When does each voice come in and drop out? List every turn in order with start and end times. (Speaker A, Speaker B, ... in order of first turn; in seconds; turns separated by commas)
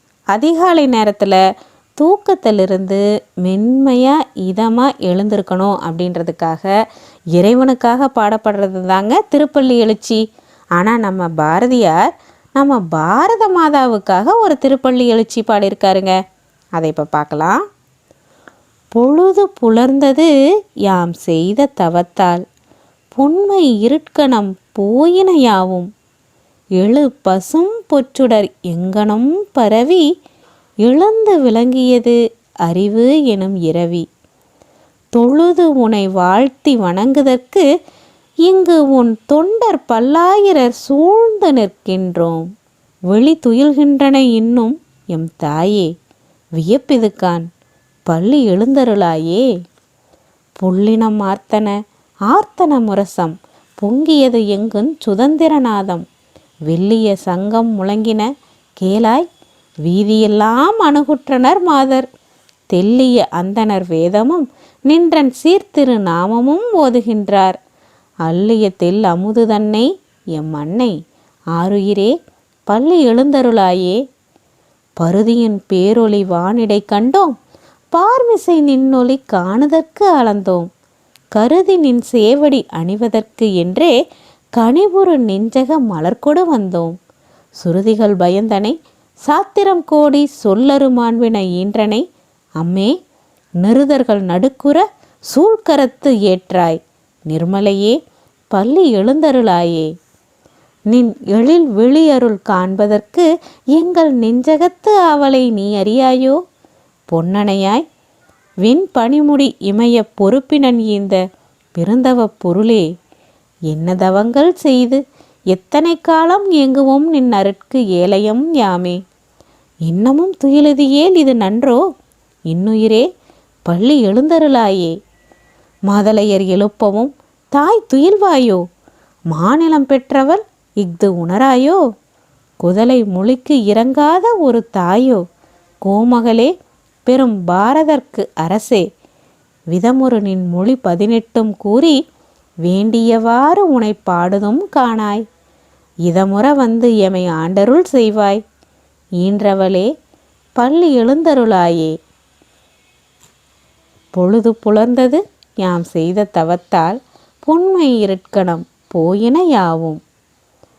Speaker A: 0.3-1.4, Speaker A: 2.0-6.7, Speaker A: 7.3-10.2, Speaker A: 10.8-16.1, Speaker A: 16.8-17.6, Speaker A: 18.9-20.3, Speaker A: 20.9-22.4, Speaker A: 23.1-25.9, Speaker A: 26.8-30.0, Speaker A: 30.8-34.0, Speaker A: 35.1-37.6, Speaker A: 38.5-42.5, Speaker A: 43.1-45.9, Speaker A: 46.5-47.5, Speaker A: 48.1-49.4, Speaker A: 50.6-51.8, Speaker A: 52.3-56.0, Speaker A: 56.7-58.3, Speaker A: 58.8-59.2, Speaker A: 59.8-62.1, Speaker A: 62.7-67.6, Speaker A: 68.2-70.9, Speaker A: 71.5-72.1, Speaker A: 72.7-74.0, Speaker A: 75.0-77.3, Speaker A: 77.9-80.7, Speaker A: 81.3-83.9, Speaker A: 84.6-87.0, Speaker A: 87.6-88.7, Speaker A: 89.2-92.0, Speaker A: 92.6-92.9, Speaker A: 93.6-98.0, Speaker A: 98.5-99.9, Speaker A: 100.9-106.4, Speaker A: 107.1-107.8, Speaker A: 108.6-111.2, Speaker A: 111.8-112.8, Speaker A: 113.7-119.0, Speaker A: 119.8-121.8, Speaker A: 122.5-123.0, Speaker A: 123.7-124.9, Speaker A: 125.9-128.6, Speaker A: 129.3-131.8, Speaker A: 132.6-135.2, Speaker A: 135.8-136.5, Speaker A: 137.1-138.8, Speaker A: 139.7-142.0, Speaker A: 142.6-145.2, Speaker A: 146.1-148.4, Speaker A: 149.2-149.9, Speaker A: 150.6-151.9, Speaker A: 154.2-160.0